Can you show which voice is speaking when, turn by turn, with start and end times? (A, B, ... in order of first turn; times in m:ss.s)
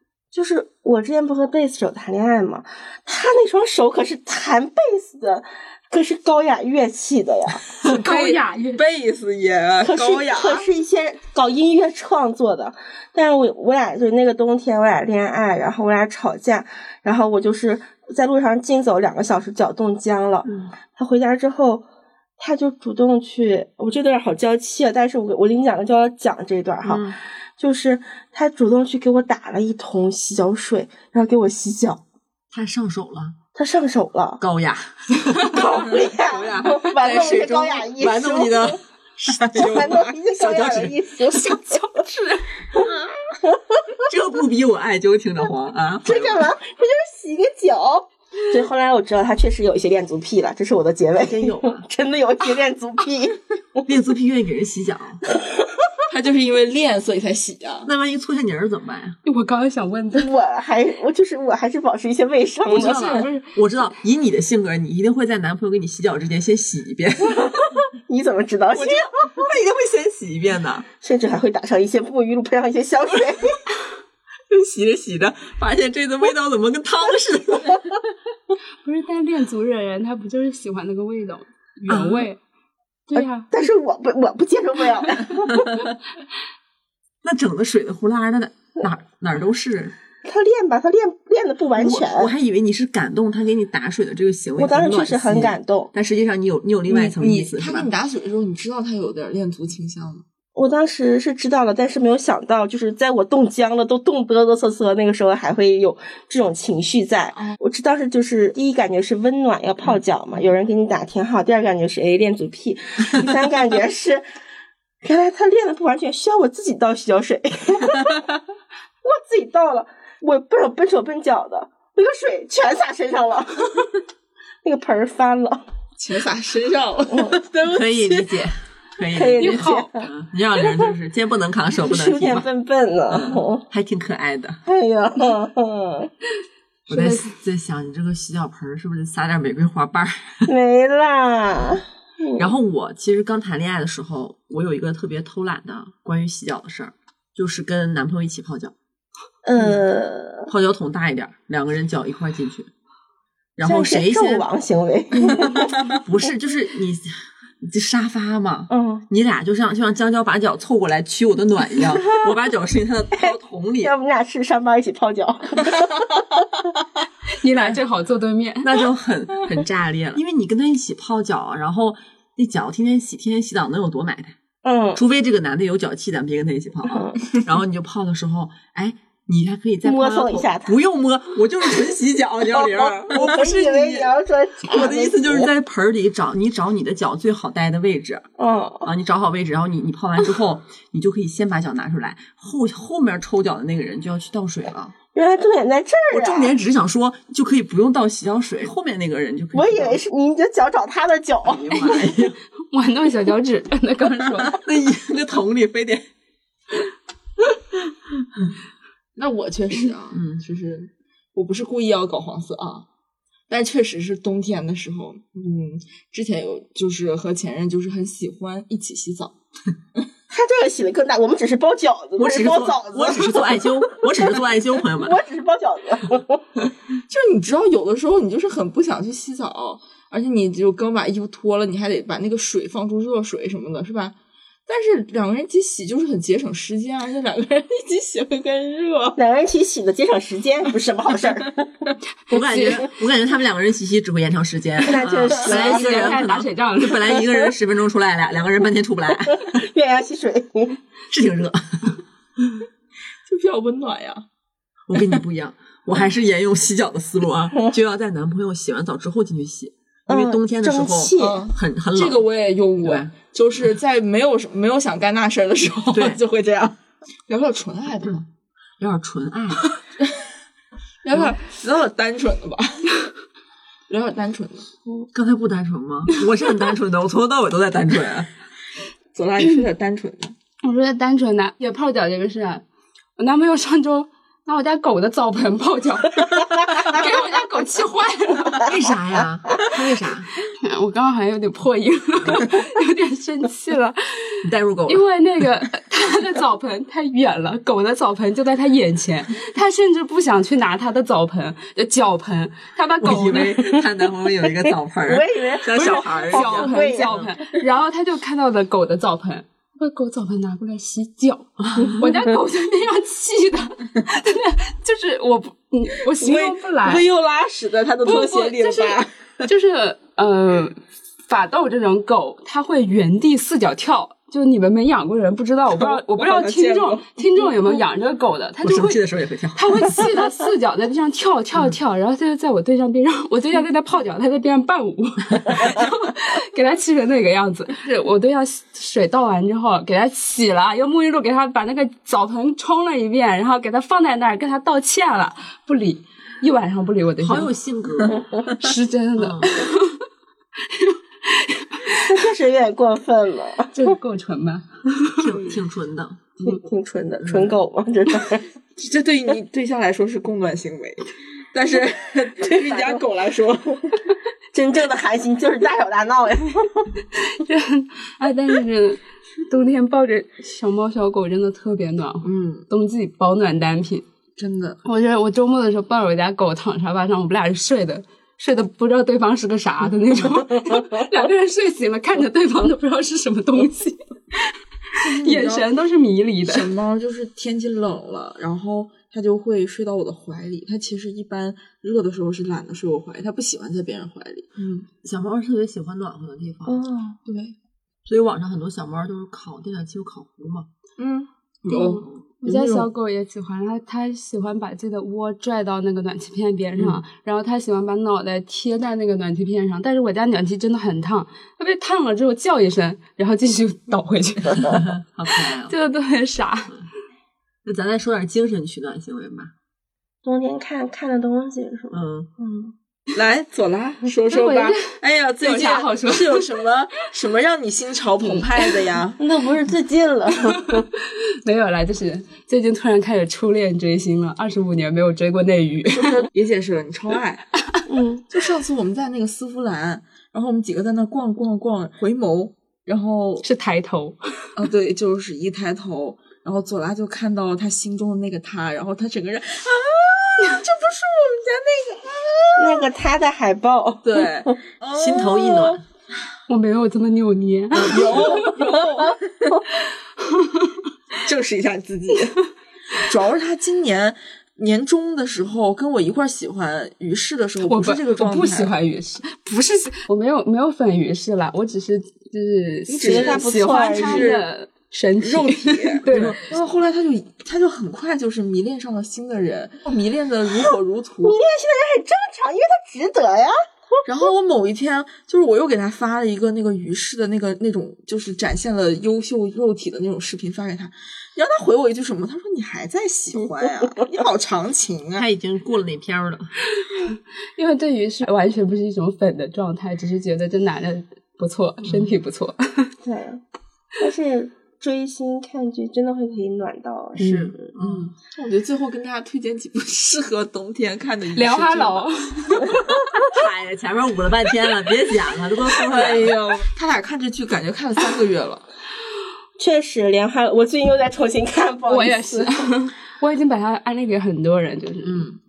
0:00.3-0:07.6 A
0:07.8-0:10.7 B
0:07.8-0:08.8 C
0:09.8-0:21.8 A
0:20.4-0:20.7 D
0:22.4-0:27.1 A
0:26.8-0:27.2 D
0:27.6-0:32.0 A
0:32.5-0:33.4 D
0:33.5-0:34.4 A
0:34.4-0:41.0 D
0:35.4-0:38.8 A
0:37.0-0:37.6 B
0:39.4-0:40.1 B
0:39.6-0:41.8 A
0:41.5-0:42.5 C
0:44.0-0:46.5 D
0:46.0-0:53.4 A
0:51.2-0:51.8 D
0:53.9-0:55.2 D
0:56.1-0:57.9 B
0:57.9-0:59.2 D
0:59.2-1:00.3 C
1:00.2-1:03.3 A
1:02.7-1:07.5 D
1:02.7-1:03.5 C
1:08.0-1:09.4 A
1:08.7-1:10.9 D
1:11.0-1:13.6 A
1:14.5-1:18.0 D
1:18.8-1:22.4 C
1:21.9-1:22.3 D
1:23.1-1:23.5 C
1:23.5-1:25.9 A
1:25.5-1:25.9 D
1:27.2-1:30.0 D
1:30.2-1:32.3 A
1:31.8-1:37.9 D
1:34.6-1:35.9 A
1:36.9-1:40.2 B
1:40.6-1:54.2 A
1:55.0-1:58.2 A
1:59.0-2:03.9 A
2:04.6-2:05.6 A
2:06.0-2:07.5 B
2:07.1-2:08.2 A
2:07.6-2:12.5 D
2:09.0-2:10.0 A
2:09.4-2:09.9 C
2:11.8-2:13.6 A
2:13.1-2:14.6 D
2:14.7-2:16.1 A
2:16.9-2:17.3 C
2:16.9-2:20.5 D
2:20.5-2:22.5 A
2:22.4-2:28.7 D
2:29.5-2:30.5 A
2:30.5-2:32.7 D
2:33.6-2:34.4 D
2:33.6-2:35.9 A
2:35.3-2:37.1 D
2:37.6-2:43.9 D
2:38.7-2:39.0 A
2:43.8-2:46.1 A
2:47.3-2:48.8 C
2:48.6-2:54.4 D
2:54.6-2:55.0 A
2:55.0-3:04.1 D
2:56.9-2:57.2 A
2:59.8-3:00.7 A
3:02.8-3:05.5 A
3:03.2-3:03.5 B
3:04.6-3:08.3 D
3:08.4-3:08.9 A
3:08.8-3:14.9 D
3:15.1-3:16.5 A
3:16.1-3:20.0 D
3:19.5-3:21.7 A
3:21.4-3:22.4 D
3:21.7-3:22.2 C
3:22.7-3:24.6 C
3:24.5-3:26.1 D
3:29.2-3:32.9 B
3:30.2-3:30.4 D
3:33.5-3:39.4 B
3:40.3-3:44.3 A
3:42.2-3:45.2 D
3:44.9-3:46.4 A
3:47.1-3:54.2 B
3:54.7-3:59.2 B
3:59.2-4:01.9 A
4:02.3-4:02.9 C
4:02.3-4:09.6 D
4:04.8-4:06.2 A
4:05.5-4:07.1 C
4:09.3-4:10.8 A
4:11.1-4:12.0 D
4:13.3-4:14.2 B
4:14.9-4:22.2 D
4:20.1-4:21.5 A
4:21.2-4:26.8 B
4:22.8-4:23.1 D
4:25.9-4:26.2 D
4:27.3-4:28.3 B
4:28.8-4:29.8 D
4:30.0-4:30.3 B
4:31.0-4:33.1 B
4:33.9-4:34.7 B
4:35.1-4:38.3 D
4:39.1-4:40.4 B
4:40.6-4:42.6 C
4:43.2-4:48.7 C
4:48.6-4:50.3 D
4:50.6-4:54.4 C
4:54.4-4:55.0 D
4:54.9-5:03.7 C
5:03.0-5:07.3 D
5:04.4-5:07.1 A
5:05.7-5:17.1 C
5:11.7-5:12.0 D
5:16.1-5:19.5 B
5:18.0-5:29.0 C
5:25.7-5:27.6 B
5:28.6-5:30.1 D
5:29.6-5:47.5 C
5:47.2-5:48.5 D
5:48.4-5:50.0 C
5:49.2-5:49.6 D
5:50.6-5:52.1 C
5:52.1-5:53.9 A
5:53.8-5:55.5 C
5:55.2-5:56.2 D
5:56.4-5:58.5 A
5:57.2-5:57.5 D
5:58.8-6:03.9 B
6:02.4-6:03.0 A
6:04.5-6:06.9 A
6:07.1-6:14.0 C
6:12.2-6:12.7 B
6:14.4-6:14.8 B
6:14.8-6:26.7 C
6:25.0-6:25.7 B
6:26.4-6:34.9 B
6:35.0-6:36.8 D
6:36.7-6:37.2 A
6:37.3-6:37.6 B
6:38.1-6:40.7 D
6:41.0-6:42.9 B
6:41.7-6:56.8 C
6:54.6-6:55.8 D
6:57.6-6:59.5 D
7:00.2-7:02.7 A
7:01.9-7:02.3 D
7:03.1-7:09.2 B
7:04.3-7:06.4 C
7:08.2-7:08.8 C
7:09.2-7:10.9 A
7:10.6-7:10.8 C
7:11.4-7:16.3 C
7:15.9-7:17.4 B
7:17.9-7:18.2 A
7:18.3-7:23.5 B
7:23.4-7:24.5 C
7:24.6-7:32.9 B
7:32.6-7:34.6 A
7:34.0-7:35.7 B
7:35.0-7:35.8 D
7:36.5-7:38.6 C
7:37.8-7:39.5 B
7:37.8-7:38.3 D
7:40.2-7:40.8 C
7:41.2-7:42.4 B
7:43.0-7:48.7 B
7:47.7-7:56.5 C
7:52.9-7:54.5 B
7:53.0-7:54.4 A
7:55.2-8:01.4 B
7:56.1-7:56.4 D
8:01.2-8:03.6 A
8:04.0-8:15.3 B
8:15.2-8:16.5 D
8:16.8-8:22.9 C
8:23.0-8:23.4 A
8:24.0-8:27.8 A
8:27.2-8:33.0 B
8:27.8-8:28.0 D
8:31.3-8:32.6 C
8:33.2-8:36.4 D
8:35.8-8:38.7 B
8:39.6-8:42.6 A
8:41.9-8:45.3 C